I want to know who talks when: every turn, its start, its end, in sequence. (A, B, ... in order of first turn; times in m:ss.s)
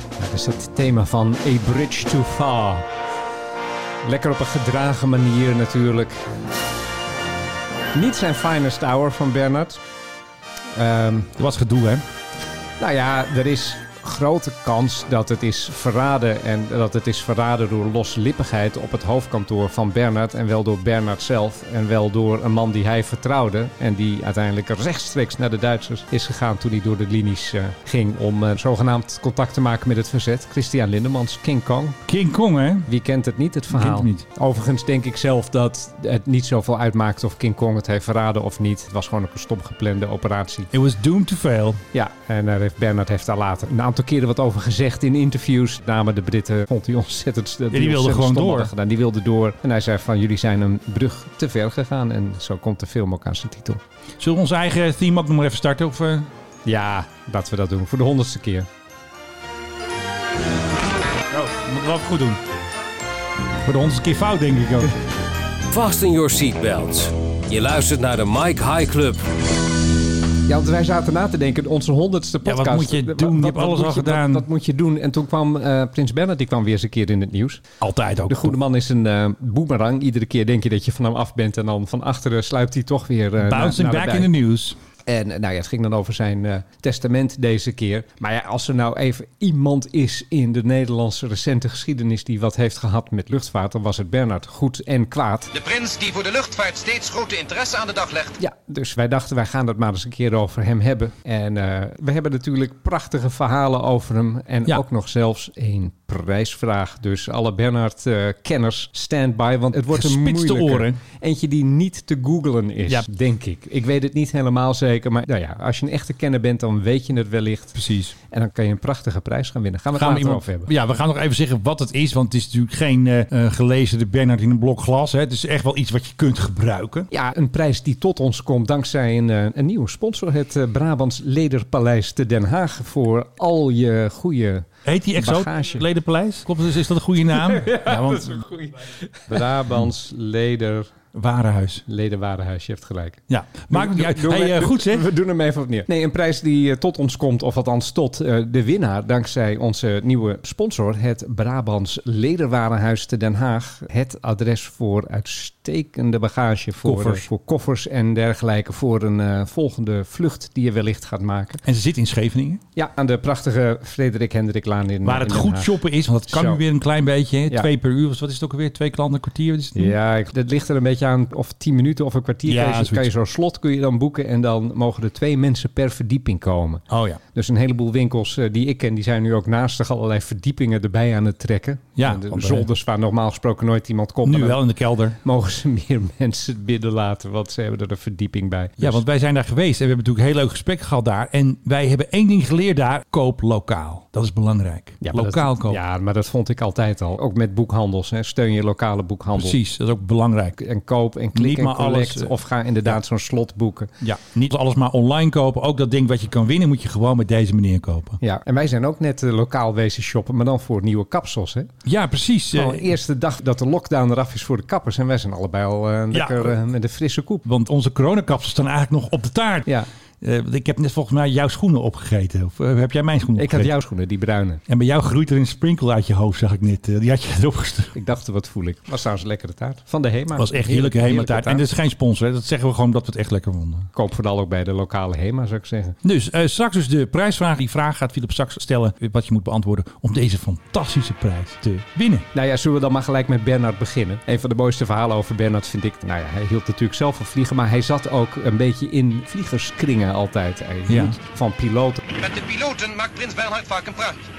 0:00.2-0:02.9 A
0:04.0-0:06.2 A
0:07.9-0:09.8 A
0:10.7-0:11.3 A
0:11.4-0:12.0 B
0:12.8-0:32.0 A
0:32.1-0:32.9 B
0:32.9-0:40.7 A
0:33.7-0:34.2 B
0:40.7-0:41.8 B
0:41.9-0:53.8 A
0:47.7-0:48.7 B
0:54.2-0:56.3 B
0:56.6-0:58.7 A
1:01.3-1:02.4 B
1:03.6-1:05.0 B
1:05.7-1:09.3 C
1:10.5-1:17.6 A
1:12.4-1:14.5 B
1:17.8-1:18.6 B
1:18.3-1:24.3 A
1:23.4-1:24.8 B
1:25.1-1:35.5 A
1:35.5-1:38.4 D
1:38.4-2:00.7 A
1:49.9-1:51.0 B
1:57.8-1:58.1 B
1:59.9-2:07.1 B
2:07.1-2:15.8 A
2:14.8-2:18.4 B
2:17.3-2:20.9 A
2:21.1-2:21.8 B
2:21.9-2:41.6 A
2:23.3-2:25.1 B
2:36.8-2:37.2 B
2:41.6-2:42.6 B
2:42.8-2:46.6 A
2:45.0-2:49.9 B
2:49.8-3:09.0 A
2:52.5-2:53.1 B
2:56.9-2:57.2 B
3:02.0-3:02.7 B
3:04.2-3:05.2 B
3:08.8-3:15.8 B
3:15.0-3:19.6 A
3:19.4-3:20.6 B
3:20.6-3:23.9 A
3:21.3-3:22.4 B
3:24.0-3:28.2 B
3:28.2-3:31.7 A
3:31.8-3:32.9 B
3:32.5-3:37.4 A
3:36.1-3:36.5 B
3:37.4-3:39.7 B
3:40.2-3:43.7 B
3:43.4-3:44.6 A
3:44.7-3:48.0 B
3:47.9-3:51.7 A
3:50.4-3:53.9 B
3:53.9-3:56.0 A
3:56.0-4:02.3 B
4:02.3-4:12.0 A
4:10.9-4:11.2 B
4:12.2-4:14.3 D